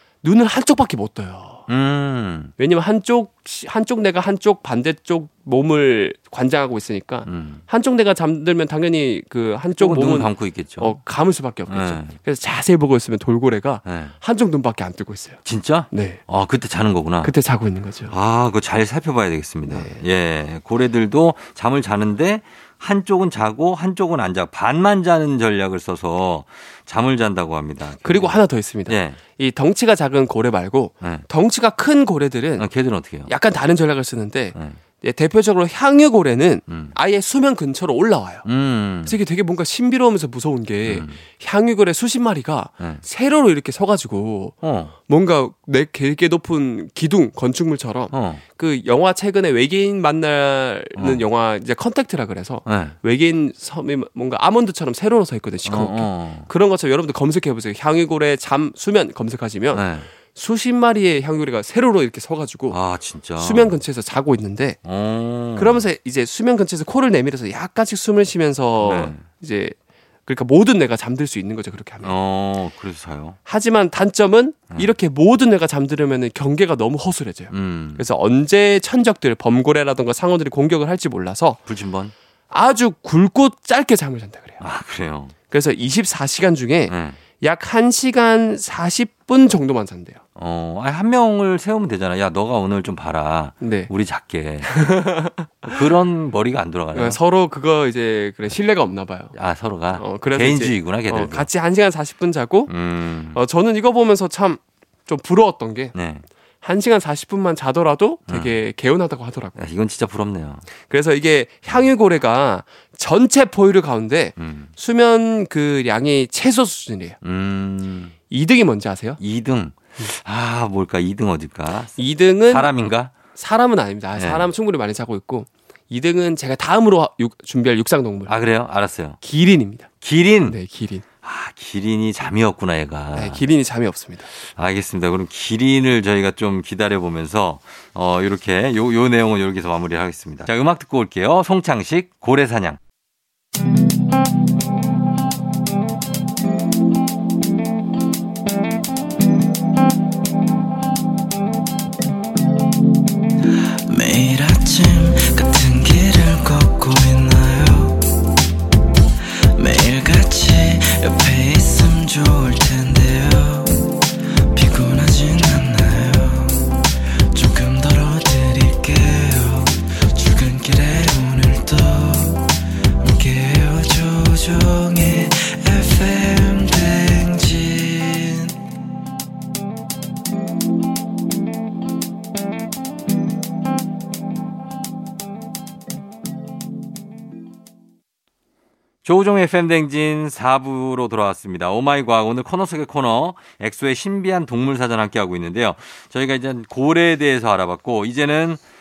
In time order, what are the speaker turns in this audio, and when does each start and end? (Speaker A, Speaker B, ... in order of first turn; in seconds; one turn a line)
Speaker A: 0.2-1.7
Speaker B: 1.7-2.5
Speaker A: 2.6-16.2
Speaker B: 7.3-7.6
Speaker B: 9.8-11.0
Speaker B: 11.7-12.2
Speaker B: 13.8-14.2
Speaker B: 15.4-17.3
Speaker A: 17.2-18.1
Speaker B: 18.1-29.2
Speaker A: 19.7-20.0
Speaker A: 28.0-32.7
Speaker B: 32.6-33.3
Speaker A: 33.3-38.5
Speaker B: 36.7-37.0
Speaker B: 38.4-39.2
Speaker A: 39.0-62.8
Speaker B: 40.9-41.2
Speaker B: 44.6-44.9
Speaker B: 48.1-48.4
Speaker B: 51.0-51.2
Speaker B: 52.6-53.0
Speaker B: 55.6-56.5
Speaker B: 59.7-60.1
Speaker B: 62.7-63.8
Speaker A: 63.4-64.8
Speaker B: 64.8-65.8
Speaker A: 65.5-69.8
Speaker B: 68.8-69.2
Speaker A: 70.3-72.2
Speaker B: 72.0-73.4
Speaker A: 73.5-81.6
Speaker B: 77.5-78.0
Speaker B: 81.7-82.1
Speaker A: 82.5-84.6
Speaker B: 84.6-85.3
Speaker A: 85.5-90.2
Speaker B: 86.9-87.2
Speaker B: 90.3-94.8
Speaker A: 93.6-93.9
Speaker A: 94.6-95.8
Speaker B: 95.6-97.2
Speaker A: 96.9-99.3
Speaker B: 99.3-101.5
Speaker A: 100.0-102.7
Speaker B: 102.7-103.4
Speaker A: 103.3-105.9
Speaker B: 105.9-106.2
Speaker A: 106.6-109.6
Speaker B: 108.3-108.5
Speaker B: 109.5-110.7
Speaker A: 110.9-117.2
Speaker B: 114.4-114.7
Speaker B: 117.2-118.1
Speaker A: 118.3-119.2
Speaker B: 119.2-123.1
Speaker A: 122.0-122.7
Speaker A: 123.3-128.3
Speaker B: 124.2-124.5
Speaker B: 128.3-129.2
Speaker A: 129.2-129.9
Speaker B: 130.0-130.6
Speaker A: 130.5-131.0
Speaker B: 131.2-133.4
Speaker A: 133.1-134.3
Speaker B: 134.5-142.8
Speaker C: 153.9-158.1
Speaker C: 159.5-178.6
Speaker B: 189.0-198.6